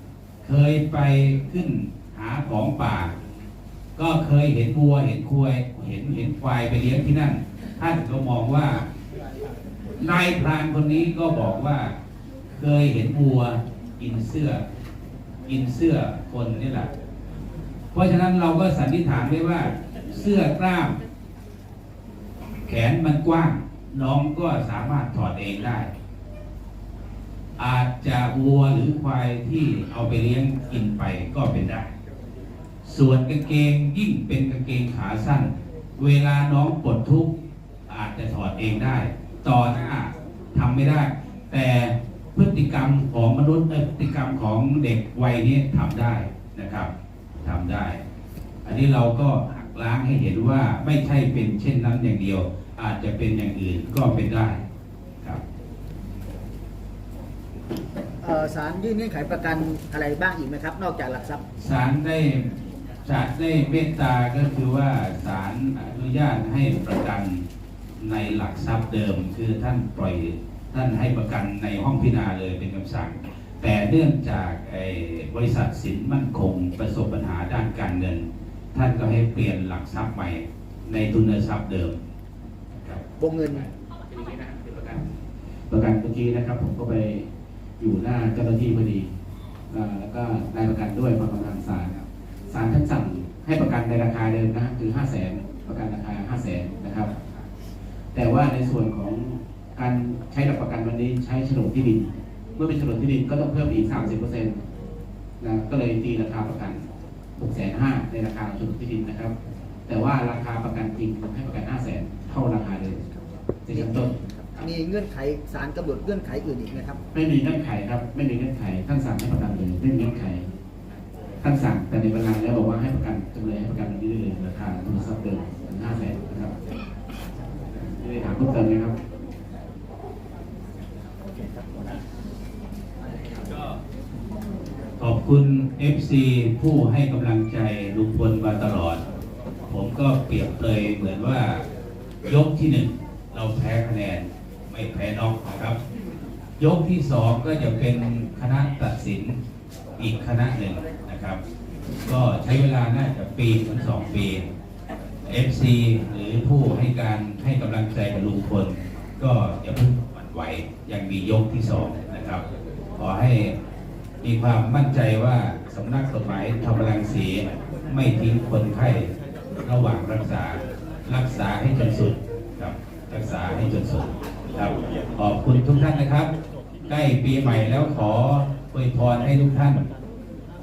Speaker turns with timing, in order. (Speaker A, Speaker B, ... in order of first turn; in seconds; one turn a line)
Speaker A: 0.4-3.1
Speaker A: 4.0-8.9
Speaker A: 10.0-11.9
Speaker A: 12.6-14.6
Speaker A: 15.5-16.9
Speaker A: 17.9-21.0
Speaker A: 22.7-25.9
Speaker A: 27.6-31.9
Speaker A: 32.8-37.3
Speaker A: 37.9-48.0
Speaker A: 48.6-54.6
Speaker B: 58.2-61.4
Speaker A: 61.6-62.5
Speaker A: 63.0-67.5
Speaker A: 68.0-82.0
Speaker B: 83.2-83.7
Speaker C: 85.7-87.3
Speaker C: 87.8-89.1
Speaker C: 89.7-97.1
Speaker C: 98.1-104.6
Speaker C: 105.4-106.8
Speaker C: 107.4-109.3
Speaker C: 109.9-113.0
Speaker C: 113.7-114.7
Speaker B: 113.7-117.0
Speaker C: 117.1-120.5
Speaker C: 121.4-126.5
Speaker C: 128.0-128.9
Speaker A: 135.0-139.0
Speaker A: 139.7-141.6
Speaker A: 142.2-145.8
Speaker A: 146.6-149.4
Speaker A: 150.0-151.4
Speaker A: 152.1-154.5
Speaker A: 155.3-162.4
Speaker A: 163.0-163.6
Speaker A: 164.2-169.1
Speaker A: 169.6-176.3
Speaker A: 176.9-179.9